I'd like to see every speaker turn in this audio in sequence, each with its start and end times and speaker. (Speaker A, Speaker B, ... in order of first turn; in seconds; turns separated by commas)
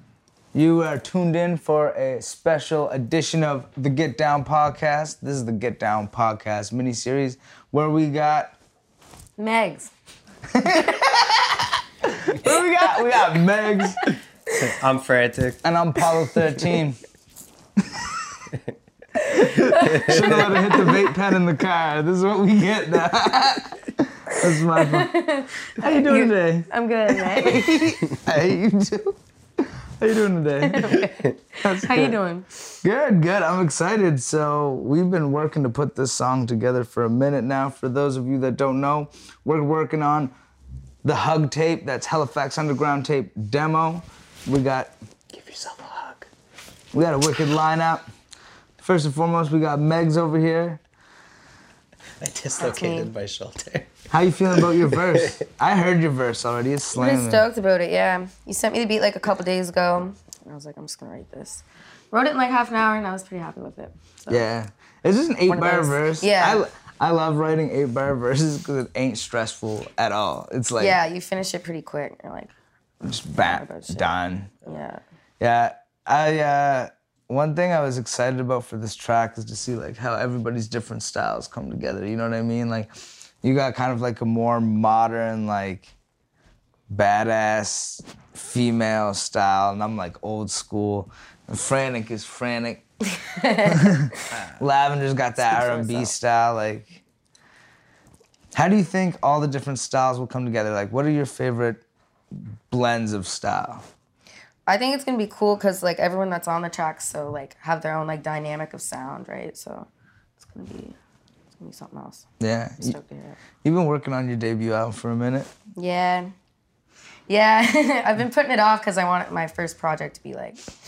Speaker A: 0.5-8.5, Speaker B: 9.4-9.9, Speaker A: 10.5-14.0, Speaker C: 14.6-15.6, Speaker A: 15.6-17.0, Speaker B: 19.3-21.0, Speaker A: 19.7-25.1, Speaker C: 19.8-20.6, Speaker B: 24.6-28.0, Speaker A: 25.8-30.9, Speaker B: 30.6-32.6, Speaker A: 31.6-32.2, Speaker A: 32.8-40.3, Speaker A: 41.0-44.9, Speaker C: 45.3-46.3, Speaker A: 46.9-48.0, Speaker A: 48.8-50.8, Speaker C: 52.2-53.9, Speaker B: 52.6-53.1, Speaker A: 54.1-57.4, Speaker C: 54.6-55.4, Speaker B: 56.9-64.5, Speaker A: 64.3-71.0, Speaker B: 65.5-66.6, Speaker B: 70.8-72.5, Speaker A: 73.0-74.5, Speaker B: 73.4-75.0, Speaker A: 75.4-82.9, Speaker A: 83.4-85.9, Speaker A: 86.9-92.8, Speaker B: 93.2-94.2, Speaker A: 93.6-97.0, Speaker C: 94.3-94.6, Speaker B: 95.4-96.1, Speaker A: 98.5-101.8, Speaker A: 102.3-103.8, Speaker B: 104.7-111.0, Speaker B: 111.6-112.2, Speaker A: 112.4-113.0, Speaker B: 112.8-113.4, Speaker A: 113.6-115.5, Speaker B: 115.8-116.3, Speaker B: 117.3-120.6